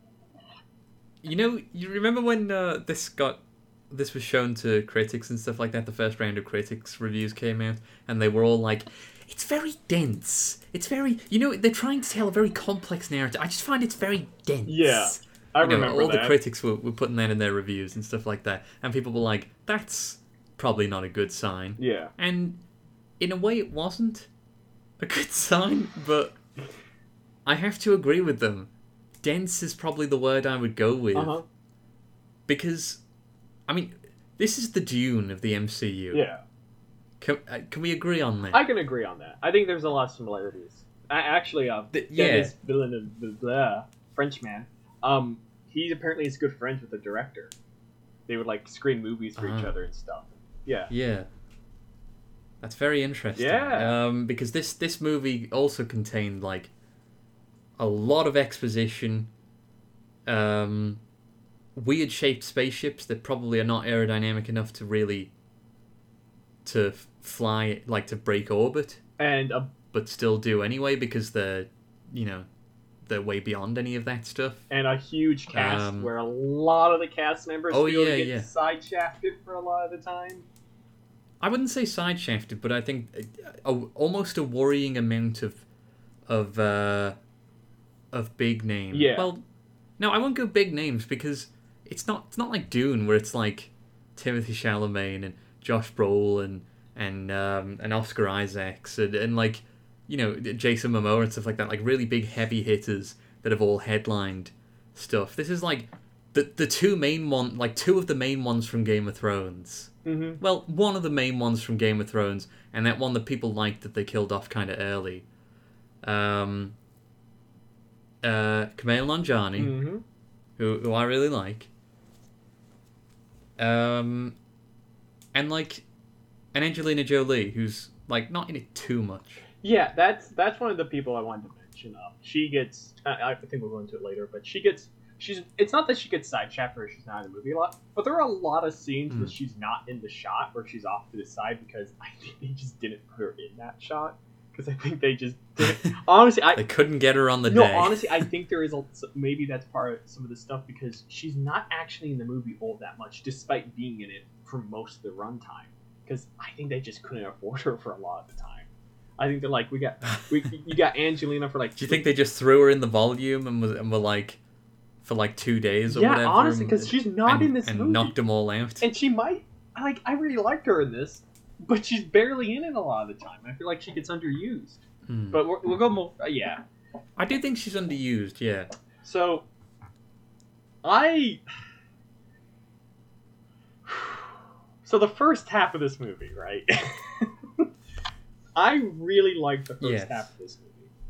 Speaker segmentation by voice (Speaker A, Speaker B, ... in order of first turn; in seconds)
Speaker A: 1.2-22.6, 23.2-24.3, 25.0-26.4, 27.4-28.7, 29.2-31.4, 32.5-33.0, 33.7-36.2, 37.2-38.6, 41.9-42.5, 49.4-49.7, 50.9-51.3, 52.6-56.7, 57.8-59.3, 60.3-61.0, 61.8-65.3, 66.7-69.0, 69.9-72.5, 73.1-74.7, 75.5-76.1, 77.7-78.5, 81.4-85.6, 86.3-87.2, 88.1-89.4, 90.0-115.3, 116.0-116.8, 118.2-119.8, 120.6-121.7, 123.6-124.4, 125.3-125.8, 126.5-129.4, 139.1-139.3, 146.6-148.2, 161.8-164.4, 165.0-168.9, 175.1-175.4, 177.2-178.7, 189.8-190.3
Speaker B: 14.7-16.4, 21.8-22.1, 31.1-31.4, 36.1-36.4, 38.5-47.5, 48.3-50.9, 53.4-54.0, 69.2-69.7, 74.7-80.5, 88.9-89.3, 110.0-110.4, 119.6-120.0, 129.6-146.6, 147.5-162.1, 165.9-168.2, 168.8-176.6, 179.0-179.5, 180.8-181.4, 183.9-184.3, 184.8-187.7, 188.6-190.9